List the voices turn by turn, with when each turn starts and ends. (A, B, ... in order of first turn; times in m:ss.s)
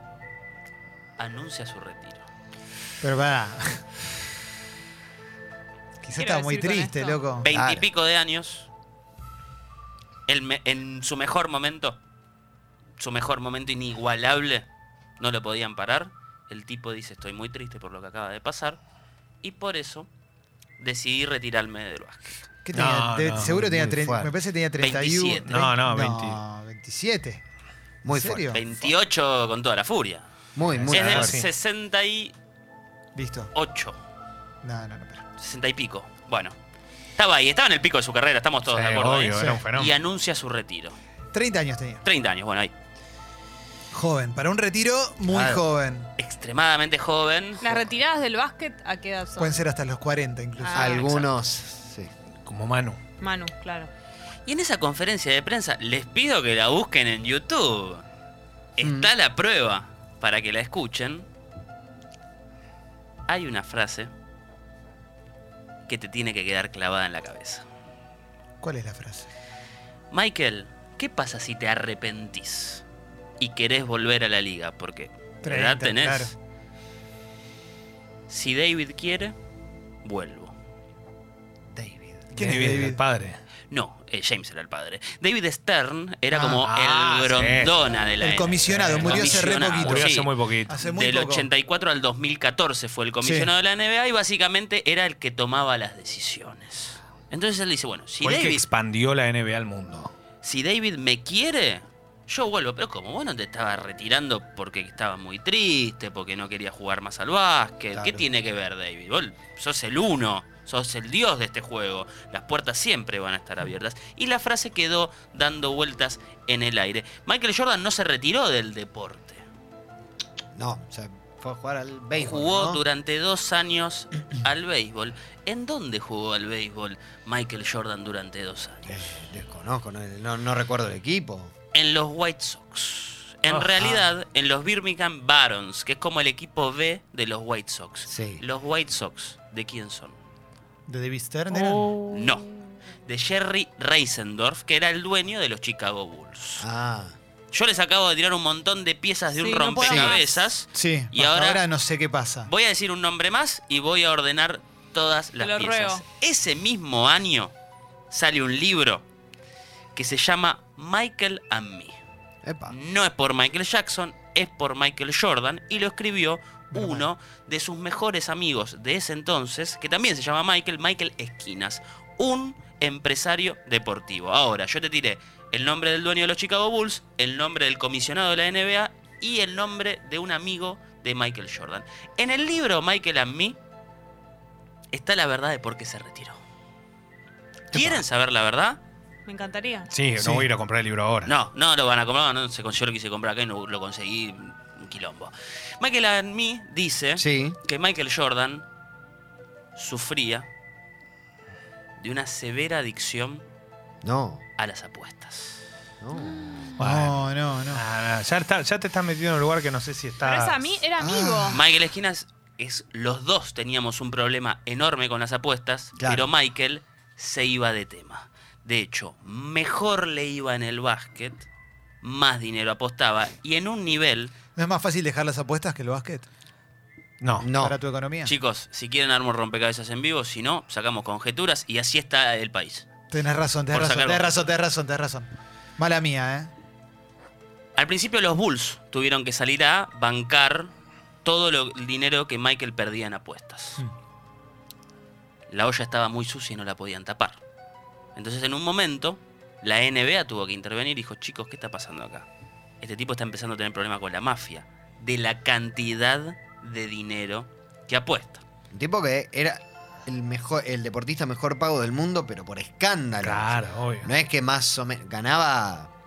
0:01.2-0:02.2 A
0:03.0-0:03.9 B
0:06.0-0:07.5 B
0:06.1-0:07.2 C
0:07.4-0:08.7 A
0:07.4-0:07.9 D
0:10.3-0:12.0 A
0:13.0-0:14.6 A
0:15.2-0:18.8 A
0:19.4-0:20.1 A
0:20.8-0:22.5 A
0:22.6-0:27.4 B
0:22.7-0:23.5 E
0:23.4-0:24.3 D
0:24.8-0:25.7 A
0:25.4-0:26.4 E
0:28.0-0:28.9 D
0:28.1-0:28.6 B
0:28.5-0:30.2 A
0:30.6-0:31.4 D
0:30.7-0:31.5 E
0:30.9-0:32.3 A
0:33.1-0:33.5 B
0:33.5-0:34.0 A
0:34.6-0:35.2 B
0:35.4-0:36.6 A
0:37.2-0:41.0 A
0:38.7-0:40.0 E
0:39.3-0:39.6 B
0:41.3-0:42.0 B
0:42.0-0:42.7 A
0:43.9-0:46.1 B
0:45.3-0:45.6 D
0:46.2-0:47.7 A
0:47.6-0:49.6 C
0:49.4-0:51.0 B
0:50.6-0:51.0 C
0:50.7-0:51.3 A
0:50.7-0:52.1 D
0:52.4-0:53.0 E
0:53.2-0:53.9 C
0:54.4-0:58.0 A
0:58.8-1:01.2 A
0:58.8-0:59.1 D
1:03.3-1:04.1 A
1:05.9-1:07.6 A
1:08.6-1:09.3 B
1:10.1-1:12.8 A
1:13.4-1:16.3 A
1:15.4-1:16.3 B
1:18.3-1:19.3 A
1:20.0-1:20.5 A
1:21.7-1:22.3 D
1:22.3-1:23.0 B
1:22.4-1:23.4 E
1:23.7-1:38.6 A
1:26.3-1:26.6 B
1:26.6-1:27.7 E
1:28.2-1:31.5 B
1:28.9-1:30.7 E
1:33.2-1:33.5 B
1:38.2-1:40.1 E
1:40.4-1:59.4 A
1:47.9-1:48.2 D
2:00.5-2:02.8 D
2:02.2-2:09.2 A
2:08.8-2:11.5 D
2:11.7-2:20.2 A
2:13.7-2:14.1 D
2:18.1-2:18.4 D
2:20.9-2:21.9 B
2:21.6-2:22.2 C
2:22.1-2:22.5 A
2:23.0-2:26.6 A
2:26.6-2:27.2 D
2:27.5-2:31.6 A
2:29.4-2:30.4 C
2:29.8-2:30.2 D
2:30.7-2:32.5 B
2:32.4-2:37.5 A
2:35.4-2:36.0 C
2:38.1-2:39.0 A
2:39.9-2:42.0 A
2:42.4-2:42.7 D
2:42.7-3:03.6 A
2:46.7-2:47.1 B
3:04.9-3:06.4 A
3:07.7-3:08.0 D
3:07.7-3:08.8 A
3:09.2-3:09.9 C
3:09.9-3:11.3 E
3:10.2-3:10.5 D
3:11.2-3:18.6 A
3:17.2-3:17.6 D
3:19.7-3:20.5 A
3:22.0-3:23.4 A
3:24.0-3:24.4 D
3:24.6-3:25.6 A
3:26.0-3:26.7 D
3:26.8-3:30.7 E
3:26.8-3:27.8 B
3:30.2-3:31.6 C
3:31.0-3:31.6 B
3:31.5-3:41.4 A
3:36.0-3:36.3 D
3:42.0-3:44.3 A
3:44.6-3:46.2 B
3:47.2-3:47.5 E
3:47.4-3:47.8 D
3:47.6-3:48.3 B
3:48.2-3:52.8 A
3:53.1-3:56.5 B
3:53.7-3:54.5 A
3:57.8-4:00.7 A
4:01.2-4:03.8 A
4:05.5-4:07.4 A
4:08.1-4:12.3 A
4:12.8-4:18.4 A
4:18.7-4:25.9 D
4:23.2-4:24.1 E